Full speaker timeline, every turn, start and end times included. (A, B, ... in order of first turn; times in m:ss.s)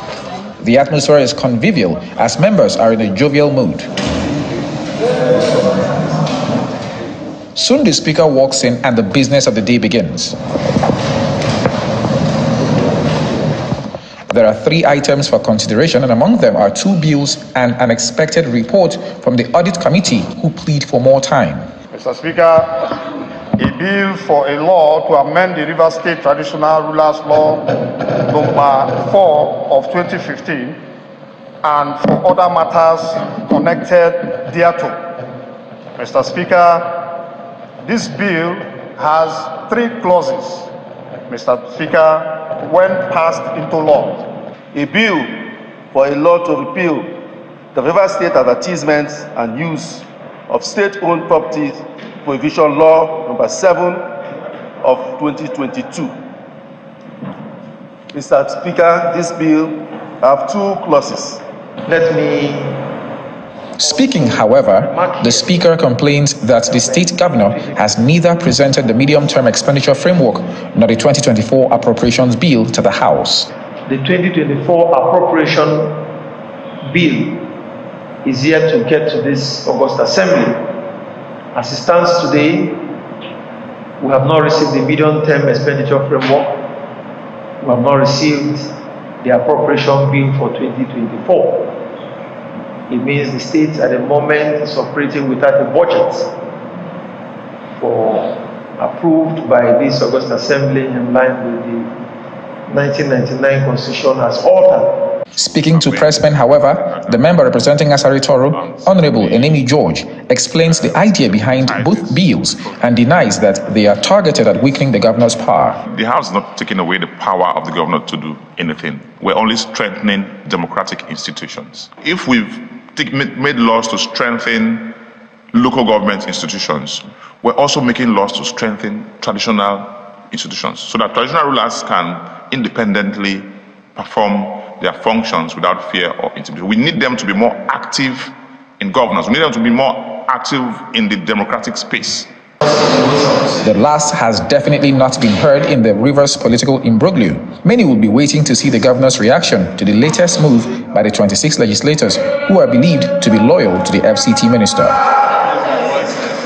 0:00.6-0:03.9 A
0:07.5-0:10.4 A
0:14.3-0:21.7 A
0:21.9-0:23.0 B
0:23.6-0:30.8 B
0:31.6-0:35.0 B
0:36.0-0:37.1 B
0:37.8-0:40.7 B
0:41.3-0:44.4 B
0:44.7-0:47.1 C
0:47.7-0:54.1 C
0:54.8-0:56.1 C
0:58.1-1:01.4 C
1:01.8-1:02.8 D
1:03.8-1:13.5 A
1:03.8-1:05.7 D
1:06.6-1:07.8 D
1:13.8-1:16.0 D
1:16.8-1:17.5 D
1:18.2-1:20.6 D
1:21.5-1:22.9 D
1:24.0-1:26.6 D
1:27.6-1:31.7 D
1:32.9-1:36.3 D
1:37.8-1:41.9 D
1:42.6-1:45.0 D
1:45.4-1:55.8 A
1:45.6-1:49.6 E
1:50.7-1:52.8 E
1:55.8-2:05.0 E
2:05.5-2:22.3 E
2:23.6-2:35.0 A